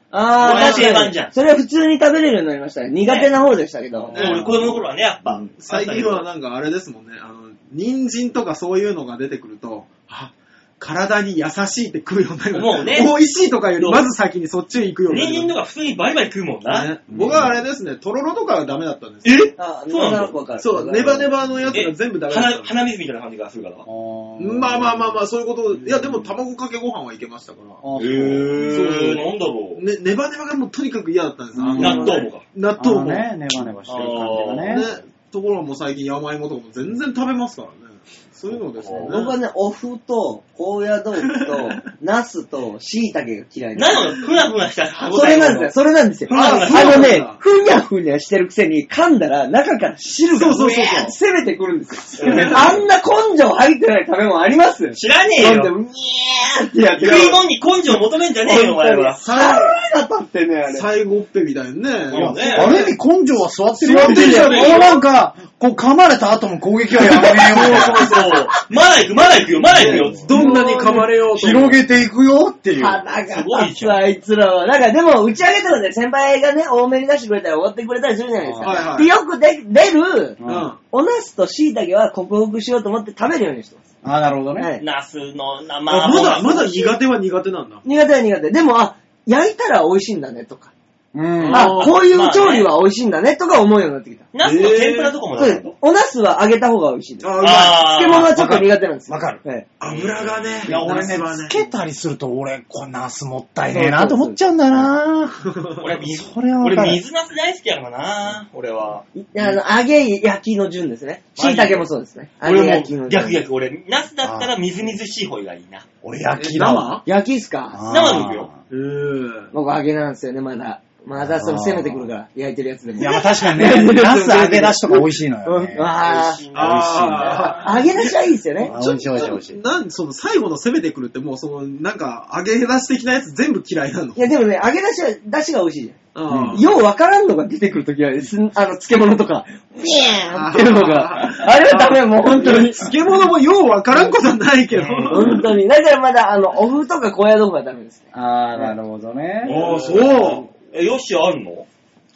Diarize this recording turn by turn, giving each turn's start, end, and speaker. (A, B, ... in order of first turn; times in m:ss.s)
0:00.1-0:04.4 A
0:00.4-0:01.3 B
0:00.4-0:00.9 C
0:04.1-0:04.8 C
0:04.1-0:06.3 B
0:05.2-0:05.5 A
0:05.6-0:15.5 C
0:12.5-0:13.1 B
0:13.8-0:14.0 B
0:15.1-0:16.9 B
0:16.6-0:19.4 C
0:17.1-0:17.6 D
0:19.2-0:20.3 B
0:19.6-0:21.3 A
0:20.6-0:22.7 C
0:21.7-0:23.8 B
0:23.8-0:25.2 D
0:24.4-0:27.8 C
0:27.8-0:28.8 D
0:28.0-0:29.8 B
0:28.5-0:33.3 C
0:31.5-0:32.1 D
0:31.7-0:32.3 A
0:31.8-0:32.4 B
0:32.8-0:34.9 D
0:33.9-0:34.8 B
0:34.6-0:39.3 C
0:38.8-0:39.2 B
0:39.0-0:44.3 A
0:41.3-0:41.7 C
0:43.7-0:45.8 B
0:45.0-0:57.4 A
0:46.3-0:47.2 B
0:46.3-0:47.4 C
0:50.3-0:51.1 C
0:52.2-0:52.8 B
0:52.2-0:52.8 C
0:54.9-0:55.7 B
0:57.0-0:59.2 B
0:58.4-1:00.9 A
0:59.2-0:59.8 C
1:00.7-1:02.9 C
1:02.1-1:02.7 B
1:02.1-1:08.1 D
1:03.8-1:04.9 C
1:03.9-1:05.0 A
1:04.2-1:04.8 B
1:06.9-1:08.6 A
1:07.7-1:10.3 B
1:09.7-1:11.8 C
1:09.8-1:11.1 A
1:11.3-1:13.0 D
1:12.8-1:23.8 A
1:13.3-1:14.0 B
1:18.4-1:18.8 D
1:18.6-1:19.1 C
1:20.4-1:20.7 D
1:20.4-1:20.8 C
1:24.0-1:24.7 D
1:24.5-1:24.8 A
1:24.8-1:26.9 B
1:25.9-1:27.8 C
1:27.8-1:30.7 A
1:31.1-1:31.7 D
1:31.4-1:32.7 B
1:31.4-1:32.0 C
1:31.5-1:34.3 A
1:34.3-1:35.7 B
1:34.4-1:35.2 C
1:35.3-1:39.7 A
1:37.2-1:38.1 C
1:37.4-1:38.3 B
1:38.1-1:39.4 D
1:39.8-1:41.7 C
1:39.8-1:41.2 B
1:40.6-1:45.5 D
1:43.7-1:44.8 A
1:45.4-1:45.8 C
1:45.8-1:49.0 B
1:46.1-1:47.0 D
1:49.1-1:53.4 A
1:51.4-1:51.8 B
1:52.4-1:55.8 B
1:54.2-1:54.5 D
1:56.0-1:57.0 D
1:56.3-1:57.0 C
1:57.0-1:57.8 A
1:57.7-1:58.6 D
1:57.9-1:58.5 B
1:58.7-1:59.5 C
1:59.5-2:06.4 A
2:01.2-2:02.0 D
2:03.0-2:05.9 D
2:06.0-2:07.9 B
2:06.5-2:14.2 C
2:06.5-2:07.8 D
2:07.5-2:08.7 A
2:08.6-2:09.6 D
2:14.2-2:22.8 A
2:16.1-2:16.7 C
2:16.3-2:16.6 D
2:20.3-2:25.5 C
2:24.7-2:25.4 B
2:25.1-2:28.8 A
2:28.1-2:30.0 D
2:29.4-2:30.4 C
2:29.4-2:31.6 B